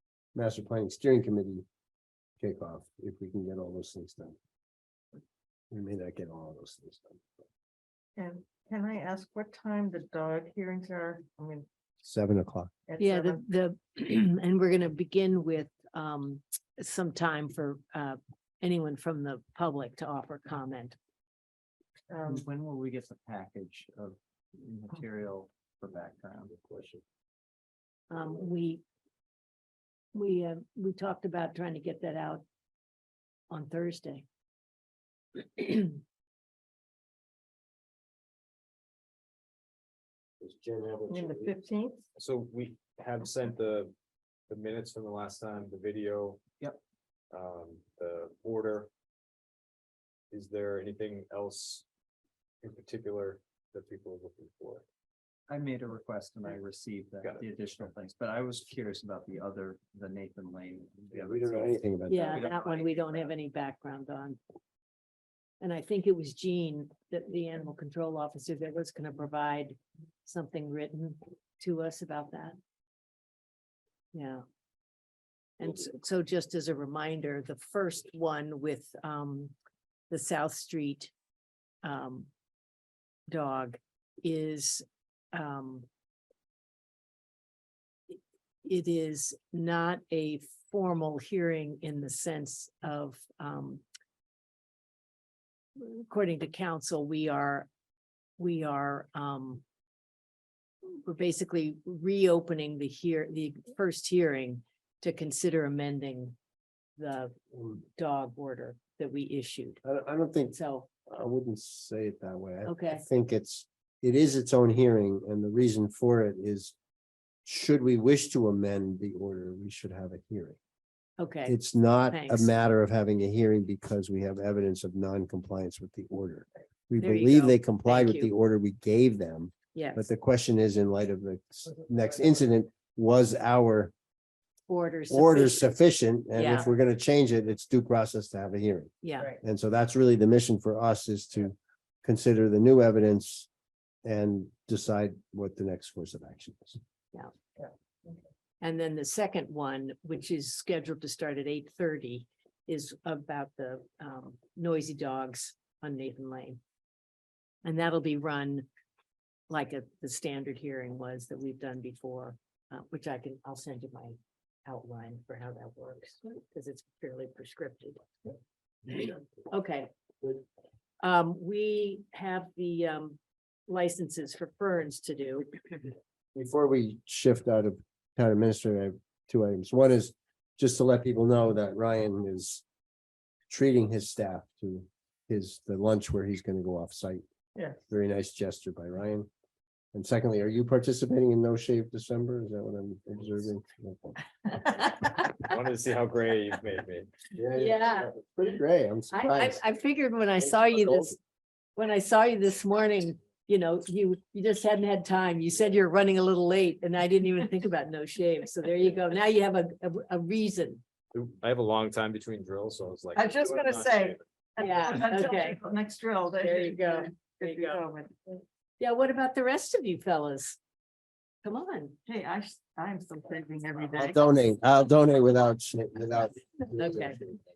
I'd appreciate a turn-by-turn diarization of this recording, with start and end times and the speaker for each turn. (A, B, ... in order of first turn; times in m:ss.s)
0:00.3-0:01.6 A
0:02.4-0:04.4 A
0:05.7-0:07.2 A
0:08.2-0:11.6 B
0:12.0-0:12.7 A
0:12.9-0:13.4 B
0:13.0-0:21.0 C
0:22.1-0:22.4 B
0:22.3-0:27.0 D
0:28.1-0:28.8 C
0:30.1-0:32.4 C
0:33.5-0:34.2 C
0:35.4-0:36.0 C
0:40.4-0:41.5 A
0:41.1-0:42.0 B
0:42.1-0:43.9 E
0:44.5-0:46.4 E
0:47.3-0:48.9 E
0:50.3-0:51.8 E
0:52.6-0:54.8 E
0:55.5-1:03.3 D
1:01.1-1:02.4 A
1:02.1-1:04.4 C
1:05.6-1:12.6 C
1:14.1-1:14.4 C
1:15.6-1:19.5 C
1:20.1-1:21.1 C
1:21.8-1:22.3 C
1:23.3-1:25.8 C
1:28.1-1:33.8 C
1:35.8-1:37.7 C
1:38.4-1:39.6 C
1:40.9-1:46.4 C
1:47.0-1:49.8 C
1:49.8-1:50.5 A
1:50.5-1:50.9 C
1:51.1-1:56.7 A
1:52.6-1:53.0 C
1:57.4-2:00.6 A
2:01.2-2:01.6 C
2:01.4-2:13.9 A
2:02.1-2:02.5 C
2:07.0-2:08.3 C
2:09.7-2:10.1 C
2:14.7-2:15.7 C
2:15.1-2:23.5 A
2:16.3-2:16.7 C
2:19.0-2:19.3 C
2:24.0-2:26.8 A
2:27.6-2:28.2 B
2:28.6-2:36.6 C
2:37.6-2:38.6 C
2:39.5-2:48.0 C
2:48.9-2:50.4 C
2:51.0-2:55.5 C
2:56.3-3:02.6 A
3:03.5-3:07.2 A
3:07.9-3:09.3 A
3:09.9-3:14.2 A
3:14.5-3:15.4 C
3:15.4-3:17.1 E
3:17.3-3:19.6 A
3:17.5-3:18.1 C
3:19.1-3:21.2 C
3:20.7-3:21.1 A
3:21.8-3:30.8 C
3:31.1-3:34.2 E
3:33.1-3:38.4 B
3:34.6-3:35.6 C
3:36.4-3:37.8 C
3:38.8-3:40.6 C
3:41.4-3:42.0 C
3:42.0-3:44.3 B
3:43.9-3:47.4 A
3:46.8-3:47.2 C